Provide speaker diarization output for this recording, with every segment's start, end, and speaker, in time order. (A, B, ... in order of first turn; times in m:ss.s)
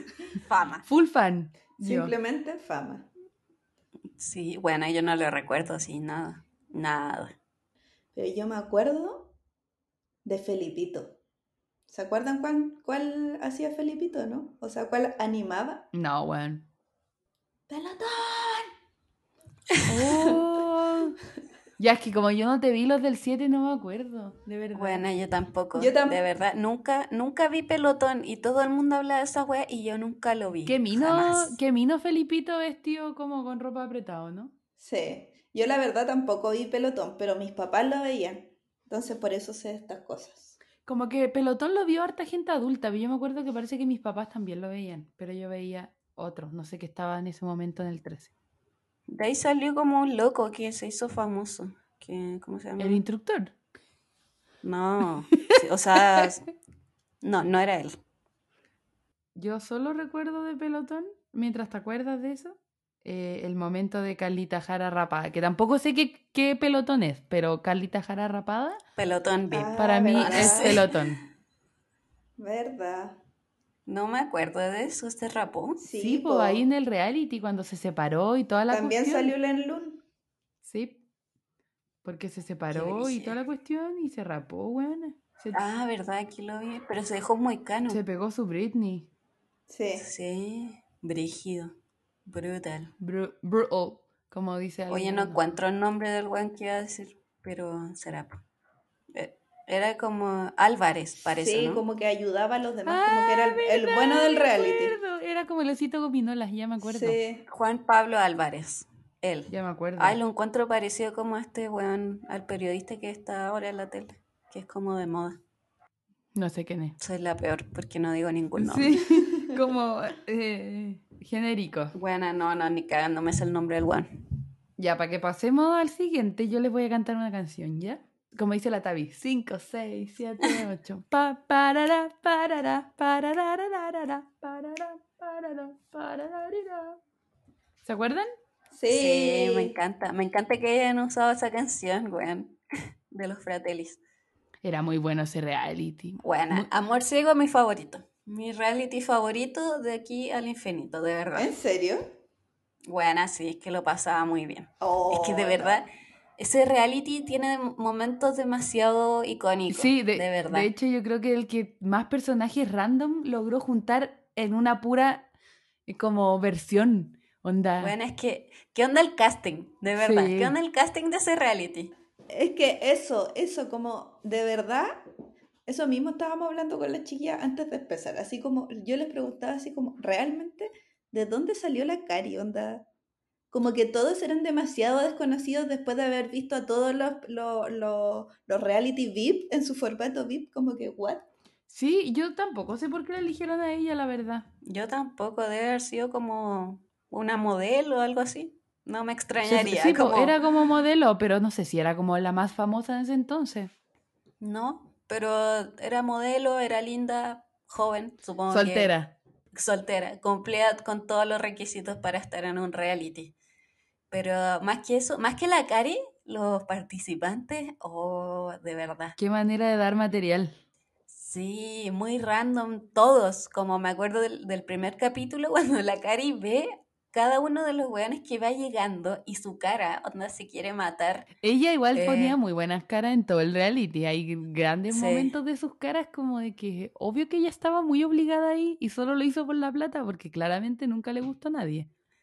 0:00.4-0:00.9 A
0:00.9-0:02.1 B
0:01.8-0:03.1 C
0:04.2-0:07.4 A
0:08.2-0:09.3 C
0:10.2-0:11.2 C
0:11.9-0:15.9 C
0:15.9-0:16.7 B
0:17.7-0:18.7 C
0:19.9-0:21.2 B
0:21.8-0:25.0 B
0:24.8-0:31.6 A
0:25.8-0:26.2 C
0:30.7-0:34.5 B
0:34.8-0:40.6 C
0:40.9-0:48.3 B
0:49.1-0:53.0 A
0:52.8-0:53.5 B
0:54.6-0:56.5 A
0:57.2-0:58.0 A
0:59.4-1:08.8 B
1:09.0-1:11.0 A
1:09.5-1:10.8 C
1:09.8-1:11.2 B
1:12.4-1:13.2 C
1:13.9-1:15.8 A
1:15.8-1:16.6 C
1:16.0-1:19.3 B
1:18.7-1:20.0 C
1:20.6-1:21.0 B
1:22.0-1:25.6 B
1:22.7-1:23.4 A
1:25.5-1:28.0 A
1:27.9-1:29.1 B
1:29.7-1:30.1 C
1:30.0-1:31.7 A
1:32.3-1:32.9 A
1:33.0-1:35.4 B
1:34.9-1:38.4 A
1:39.1-1:41.8 A
1:41.3-1:45.0 C
1:42.9-1:47.2 B
1:46.8-1:47.4 C
1:47.5-1:55.4 A
1:49.5-1:50.2 B
1:56.4-1:57.0 B
1:57.0-1:59.0 A
1:58.6-2:01.9 B
2:01.9-2:04.2 A
2:04.8-2:17.0 B
2:17.8-2:18.3 B
2:18.7-2:19.8 C
2:18.9-2:22.6 A
2:23.1-2:24.0 A
2:24.6-2:26.7 B
2:26.2-2:31.5 A
2:31.4-2:32.1 C
2:32.9-2:35.9 A
2:34.8-2:35.8 C
2:36.4-2:40.7 A
2:39.7-2:45.3 B
2:45.9-2:47.9 B
2:47.8-2:51.9 A
2:50.0-2:50.6 B
2:52.3-2:55.0 C
2:55.7-3:02.9 C
3:03.5-3:11.3 C
3:11.7-3:14.5 B
3:14.6-3:20.4 A
3:19.4-3:23.7 B
3:24.4-3:28.9 A
3:28.5-3:29.1 B
3:29.5-3:33.4 A
3:34.1-3:39.2 A
3:39.2-3:40.5 B
3:41.1-3:51.3 A
3:51.4-4:01.9 B
3:51.9-3:52.4 A
3:54.9-3:55.4 A